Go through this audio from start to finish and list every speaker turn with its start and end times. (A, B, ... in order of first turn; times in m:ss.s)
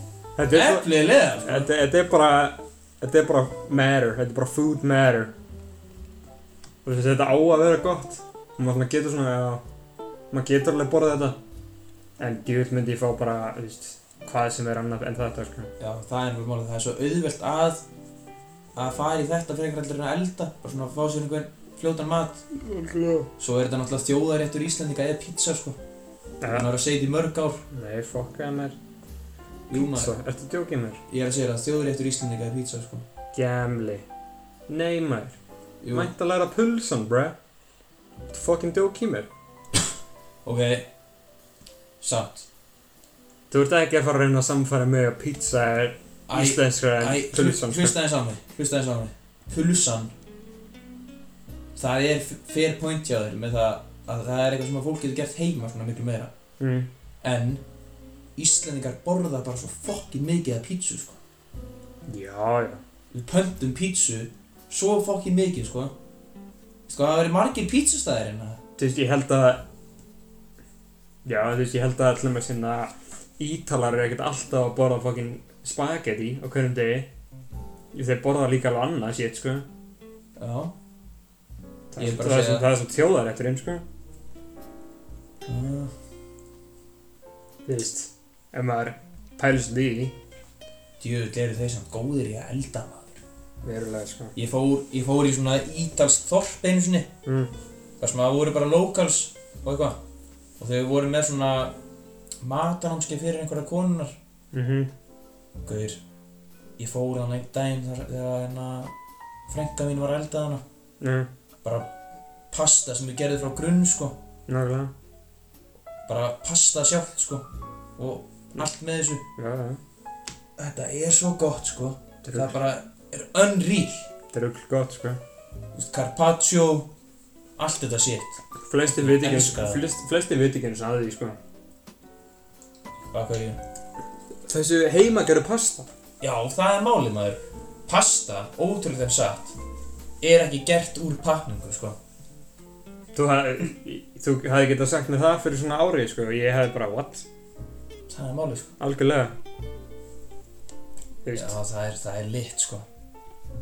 0:00.4-0:00.9 A
0:00.5-0:01.7 B
0:01.4-0:05.3 A
0:06.8-0:09.6 A
0:10.3-0:11.4 A
0:12.2-0:15.7 A
0:15.8-0:17.8 B
0:18.7-0:22.4 B
0:22.5-0:23.3 A
0:23.4-0:25.8 B
0:26.4-0:26.7 A
0:26.5-0:27.6 B
0:27.7-0:28.8 A
0:29.7-0:30.1 B
0:29.7-0:31.0 A
0:31.1-0:33.0 B
0:33.3-0:34.0 A
0:34.7-0:35.4 A
0:35.8-0:36.1 B
0:35.9-0:37.4 A
0:38.3-0:39.3 A
0:40.4-0:40.9 B
0:42.0-0:42.5 B
0:43.5-0:48.0 A
0:46.3-0:50.1 B
0:51.8-0:56.3 B
0:56.6-0:56.9 A
0:57.2-0:57.6 B
0:58.4-1:01.2 B
1:02.1-1:02.8 A
1:03.1-1:05.9 B
1:06.9-1:08.6 B
1:08.8-1:09.6 A
1:11.2-1:17.1 A
1:17.9-1:19.6 A
1:20.4-1:20.7 B
1:21.9-1:23.8 A
1:22.0-1:22.6 B
1:25.4-1:25.9 B
1:27.6-1:30.2 A
1:31.0-1:33.2 B
1:33.6-1:34.3 A
1:34.3-1:37.1 B
1:37.2-1:37.5 A
1:38.0-1:40.0 B
1:40.6-1:41.8 B
1:42.4-1:44.2 B
1:44.5-1:44.9 A
1:45.6-1:46.0 B
1:46.8-1:48.9 B
1:49.5-1:50.6 B
1:51.0-1:51.3 A
1:51.6-1:51.9 B
1:52.5-1:54.2 B
1:54.5-1:54.9 A
1:56.0-1:57.4 B
1:58.0-1:59.2 B
1:59.4-1:59.8 A
2:00.6-2:04.1 B
2:02.2-2:02.6 A
2:04.3-2:05.2 A
2:05.7-2:06.9 B
2:07.6-2:09.8 B
2:08.6-2:11.4 A
2:13.1-2:13.6 B
2:14.5-2:15.9 A
2:16.2-2:19.6 B
2:20.2-2:22.0 B
2:23.1-2:27.3 A
2:28.1-2:28.7 B
2:28.8-2:29.3 A
2:31.2-2:31.6 A
2:31.3-2:32.9 B